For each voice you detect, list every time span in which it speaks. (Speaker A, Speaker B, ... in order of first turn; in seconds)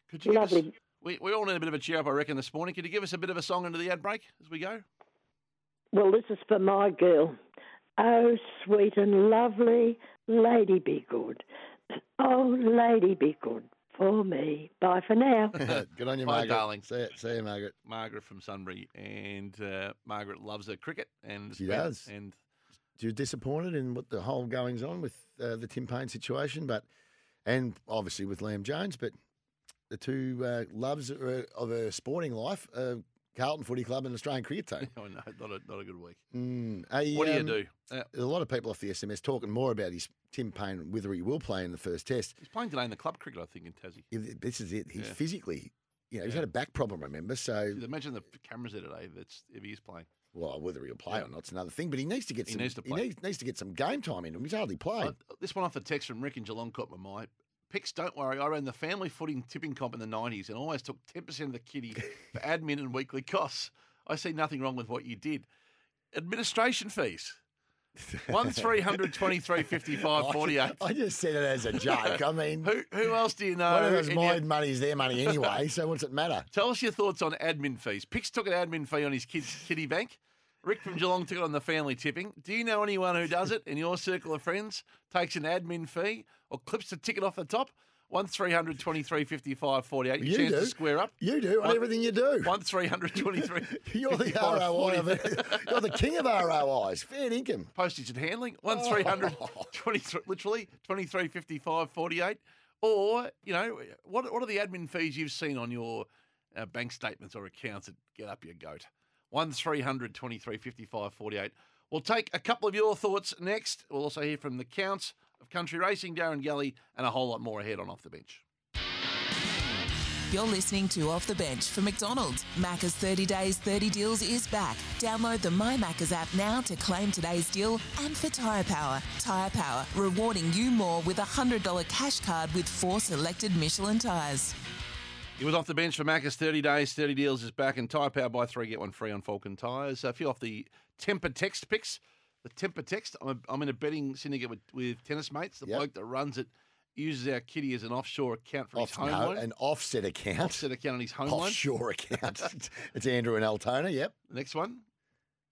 Speaker A: 0.1-4.8, 15.6-16.9, 17.9-22.4, 34.8-36.2, 37.1-38.1, 42.4-44.0, 47.7-50.1, 52.5-53.0, 55.0-65.5, 66.1-67.4, 68.3-70.8, 72.1-74.4, 75.3-75.5, 76.5-91.8, 92.4-95.7, 97.8-118.4, 135.4-149.4, 150.4-151.6, 154.3-154.8
Speaker B: 0.3-0.7, 5.9-7.4, 8.0-11.4, 12.2-15.5
Speaker C: 15.6-17.7, 21.6-22.1, 23.0-26.9, 27.4-29.1, 29.9-34.9, 36.3-37.6, 38.1-42.4, 44.1-47.8, 50.3-55.2, 68.0-69.2, 70.0-72.7, 73.7-76.5, 90.2-92.5, 93.4-97.7, 98.7-99.7, 148.8-150.7, 151.2-154.2
Speaker D: 120.3-134.6